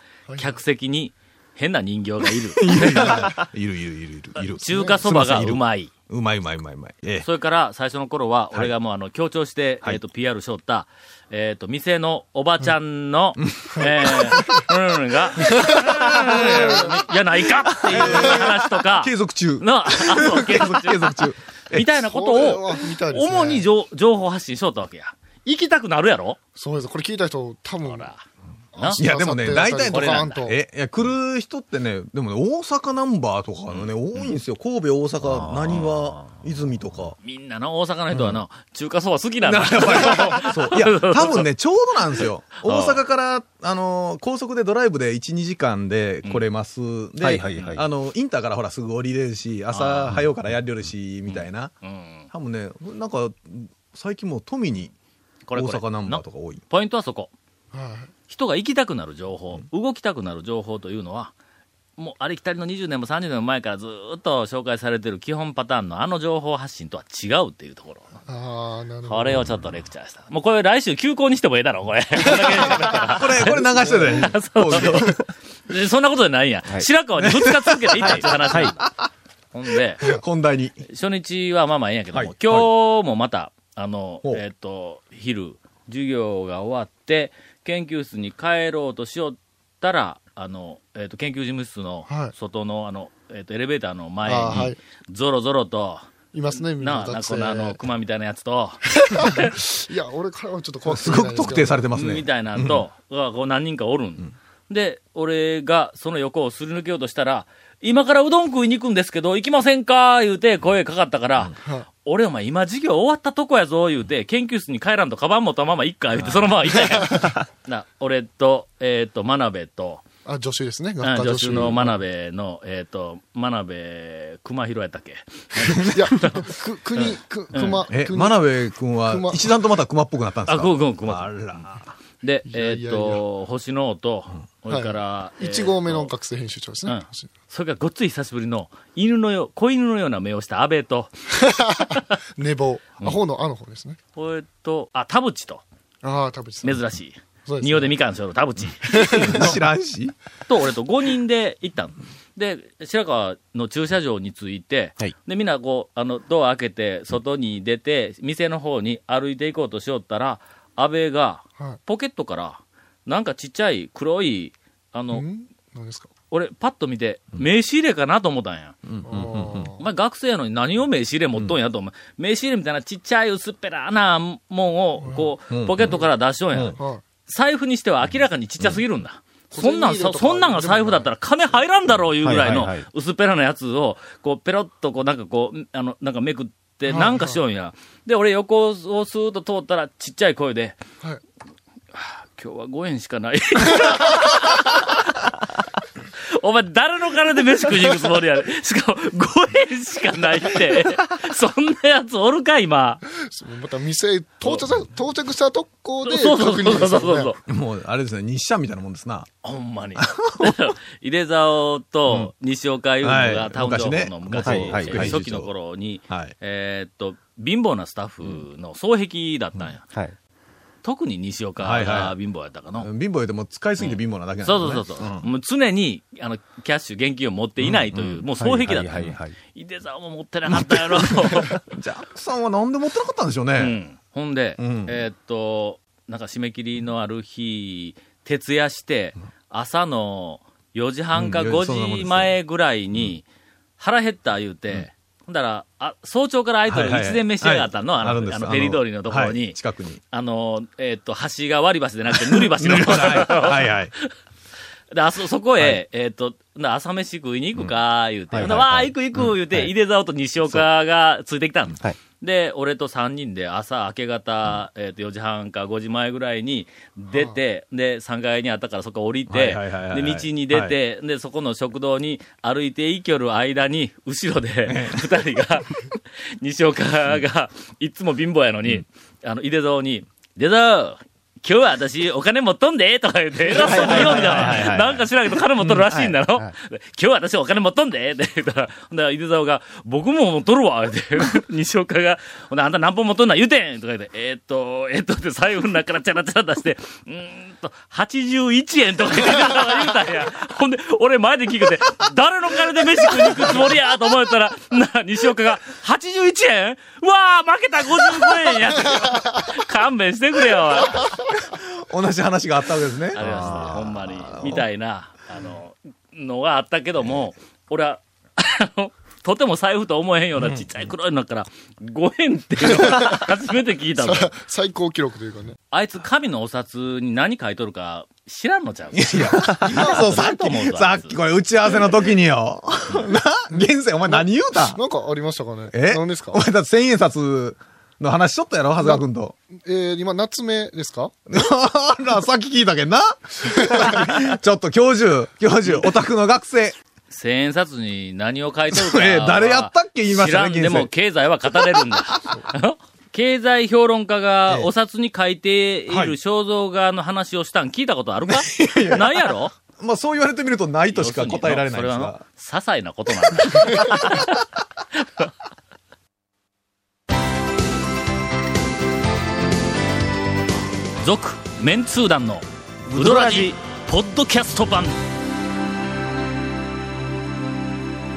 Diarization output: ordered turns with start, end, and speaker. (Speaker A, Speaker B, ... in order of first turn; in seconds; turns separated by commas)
Speaker A: 0.3-0.6, Speaker B: 0.4-3.4, Speaker C: 2.2-7.3, Speaker B: 4.4-5.9, Speaker A: 4.7-5.0, Speaker B: 7.2-21.2, Speaker C: 13.4-13.9, Speaker A: 15.9-16.9, Speaker C: 16.0-16.8, Speaker C: 17.8-21.9, Speaker A: 17.9-18.4, Speaker B: 21.7-26.4, Speaker A: 22.1-23.7, Speaker A: 26.6-28.1, Speaker B: 27.8-28.2, Speaker A: 28.7-30.6, Speaker B: 28.8-29.0, Speaker C: 29.0-37.2, Speaker B: 29.9-30.5, Speaker B: 33.7-34.4, Speaker B: 35.2-36.2, Speaker B: 37.2-41.5, Speaker C: 38.1-38.4, Speaker C: 39.4-54.9, Speaker B: 42.2-43.0, Speaker D: 47.2-47.8, Speaker B: 47.5-47.8, Speaker B: 49.7-50.3, Speaker B: 51.3-52.3, Speaker B: 55.5-57.3, Speaker C: 55.5-56.6, Speaker A: 57.7-58.1, Speaker B: 58.3-61.3, Speaker B: 62.0-68.2, Speaker A: 68.3-69.4, Speaker B: 69.0-78.8, Speaker A: 72.3-72.8, Speaker C: 73.1-75.2, Speaker C: 77.2-79.0, Speaker D: 78.1-78.7, Speaker B: 79.5-80.1, Speaker C: 80.0-80.8, Speaker B: 80.8-99.5, Speaker C: 82.1-82.7, Speaker A: 92.1-92.3, Speaker A: 94.2-94.8, Speaker A: 96.3-97.8, Speaker A: 99.0-101.8, Speaker C: 100.8-102.8, Speaker B: 101.9-120.0, Speaker A: 111.6-111.9, Speaker C: 116.2-116.5, Speaker A: 120.2-122.0, Speaker B: 121.0-127.9, Speaker A: 125.9-129.5, Speaker C: 127.8-131.9, Speaker B: 130.4-136.1, Speaker A: 132.5-133.2, Speaker A: 134.7-137.3, Speaker B: 136.8-141.2, Speaker A: 141.5-144.0, Speaker B: 144.1-145.6, Speaker A: 146.0-146.9, Speaker B: 146.6-149.5, Speaker A: 147.4-147.9, Speaker A: 148.9-149.5, Speaker C: 149.1-150.1, Speaker B: 150.5-165.2, Speaker A: 165.1-166.1, Speaker B: 166.3-168.8, Speaker C: 168.8-169.7, Speaker A: 169.1-169.8, Speaker B: 169.8-190.8, Speaker A: 175.0-175.3, Speaker C: 175.5-176.0, Speaker C: 176.5-176.8, Speaker A: 176.7-177.0, Speaker A: 179.5-181.2, Speaker D: 182.2-182.8, Speaker A: 186.9-187.4, Speaker B: 191.9-195.0, Speaker B: 196.4-203.0, Speaker A: 203.3-207.3, Speaker B: 206.0-207.4, Speaker C: 207.5-209.3, Speaker B: 209.4-219.8, Speaker C: 209.9-210.5, Speaker C: 213.0-215.5, Speaker D: 214.4-215.2, Speaker C: 216.1-216.3, Speaker D: 219.9-220.1, Speaker B: 220.8-222.9, Speaker C: 221.6-222.2, Speaker C: 222.8-225.3, Speaker B: 223.8-231.8, Speaker C: 227.6-228.3, Speaker D: 228.3-229.3, Speaker C: 230.5-233.8, Speaker B: 233.6-243.2, Speaker C: 234.6-235.0, Speaker C: 241.1-242.3, Speaker B: 243.8-249.6, Speaker C: 246.7-250.0, Speaker B: 250.1-254.1, Speaker C: 252.1-253.9, Speaker B: 254.9-311.2, Speaker D: 258.3-259.7, Speaker C: 259.1-259.4, Speaker C: 269.3-270.7, Speaker C: 274.6-275.4, Speaker D: 283.6-285.1, Speaker C: 283.7-284.5, Speaker D: 285.7-286.5, Speaker C: 311.3-314.6, Speaker B: 313.1-324.3, Speaker C: 320.3-320.7, Speaker A: 322.8-323.3, Speaker A: 323.9-325.6, Speaker B: 325.7-331.2, Speaker C: 328.9-334.8, Speaker A: 329.6-330.1, Speaker B: 331.7-332.2, Speaker A: 333.5-336.4, Speaker C: 335.7-339.3, Speaker A: 338.8-339.0, Speaker A: 339.6-341.1, Speaker C: 341.3-346.8, Speaker B: 345.6-345.9, Speaker B: 347.1-359.5, Speaker C: 348.7-350.9, Speaker C: 351.5-352.4, Speaker C: 355.9-356.1, Speaker C: 358.2-362.2, Speaker B: 360.9-364.4, Speaker C: 363.8-364.1, Speaker B: 371.0-374.9